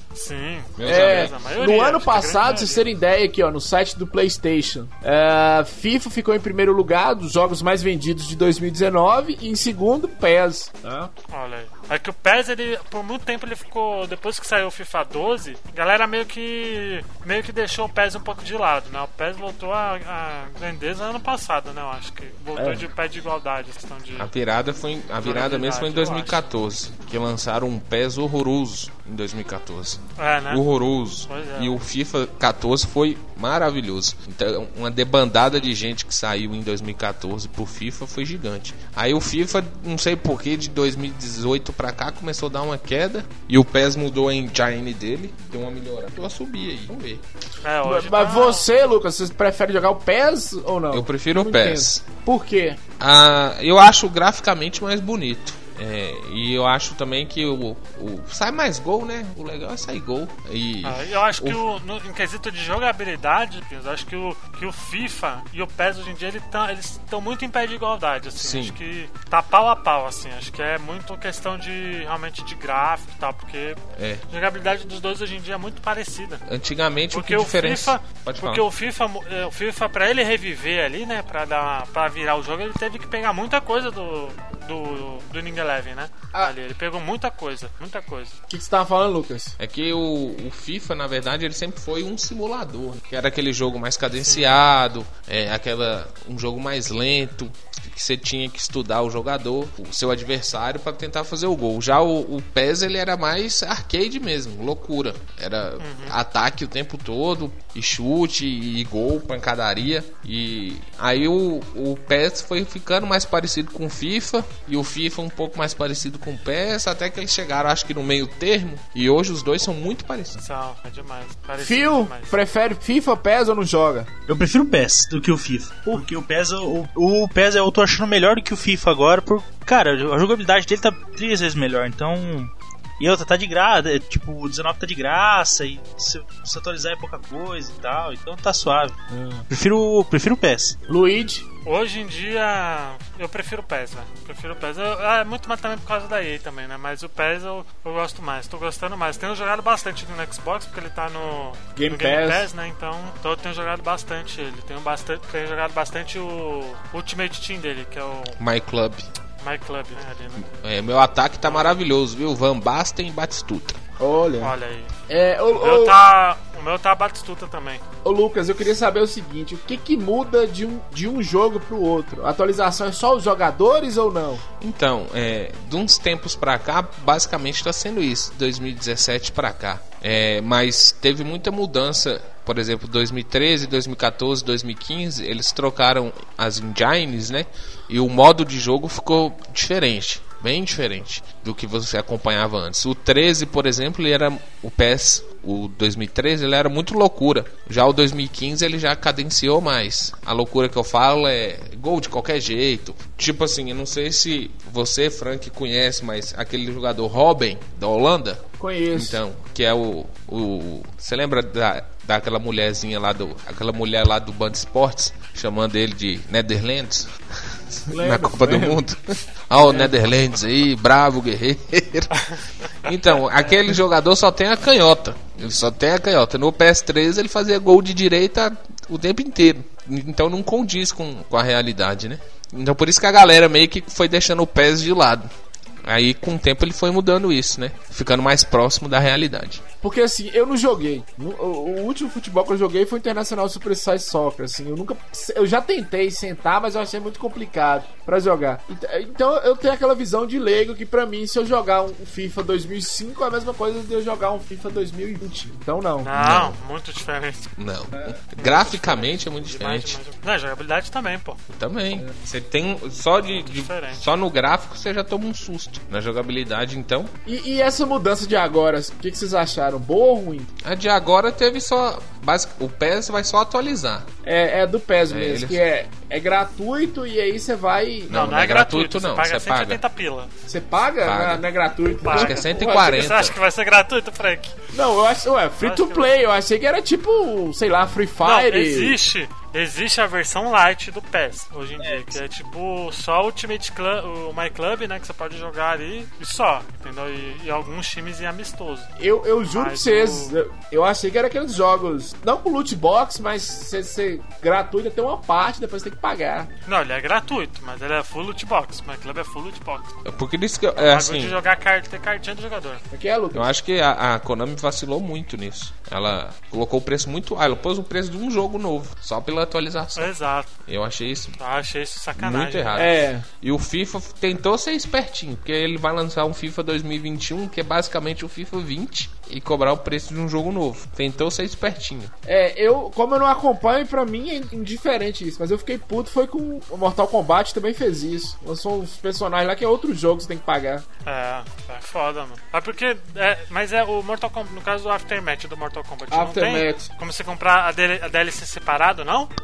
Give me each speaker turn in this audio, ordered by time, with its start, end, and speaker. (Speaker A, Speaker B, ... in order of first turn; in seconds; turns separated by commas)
Speaker A: 0.1-2.9, Speaker B: 0.8-1.4, Speaker C: 0.8-11.1, Speaker A: 11.3-24.3, Speaker B: 24.2-47.2, Speaker A: 25.2-26.5, Speaker A: 30.2-30.6, Speaker A: 31.3-31.8, Speaker A: 47.6-48.7, Speaker C: 47.8-52.8, Speaker B: 50.9-52.0, Speaker B: 53.0-61.6, Speaker A: 60.8-73.8, Speaker B: 68.4-68.8, Speaker B: 74.0-74.3, Speaker A: 74.3-76.4, Speaker B: 76.5-78.6, Speaker A: 77.1-88.4, Speaker C: 88.5-89.5, Speaker B: 89.6-120.4, Speaker A: 94.2-94.6, Speaker A: 105.8-106.2, Speaker A: 120.4-122.4, Speaker C: 121.6-124.1, Speaker D: 124.3-139.0, Speaker C: 139.1-139.5, Speaker D: 139.5-140.8, Speaker C: 140.9-141.5, Speaker A: 141.7-158.4, Speaker C: 151.8-152.5, Speaker B: 158.4-159.0, Speaker A: 159.4-160.5, Speaker B: 160.5-163.8, Speaker A: 161.4-161.8, Speaker C: 164.0-164.6, Speaker A: 164.4-164.9, Speaker C: 165.1-166.0, Speaker A: 165.5-167.8, Speaker C: 168.0-174.4, Speaker B: 174.6-235.3, Speaker C: 208.6-209.2, Speaker C: 217.9-218.8, Speaker C: 219.6-219.9, Speaker B: 235.8-239.6, Speaker C: 239.8-256.1, Speaker A: 256.0-257.5, Speaker B: 256.2-256.6, Speaker B: 257.6-260.0, Speaker A: 258.4-261.4, Speaker B: 261.5-267.1, Speaker A: 263.2-264.0, Speaker C: 267.2-270.5, Speaker B: 270.6-274.1, Speaker C: 274.2-278.1, Speaker B: 275.1-275.6, Speaker B: 278.1-279.8, Speaker A: 278.1-280.3, Speaker C: 280.5-283.0, Speaker B: 281.0-281.4, Speaker A: 282.1-284.6, Speaker B: 282.1-283.4, Speaker C: 284.7-289.0, Speaker A: 285.6-286.1, Speaker A: 288.2-298.9, Speaker D: 291.8-292.2, Speaker C: 299.0-306.5, Speaker A: 299.5-300.4, Speaker A: 306.7-309.9, Speaker B: 310.1-311.4, Speaker A: 310.8-312.8, Speaker C: 312.9-313.5, Speaker B: 313.3-320.1, Speaker A: 320.0-320.5, Speaker B: 320.7-321.4, Speaker A: 321.4-322.9, Speaker B: 322.2-332.1, Speaker C: 322.7-323.3, Speaker C: 332.3-340.9, Speaker A: 341.1-349.3, Speaker C: 346.1-346.9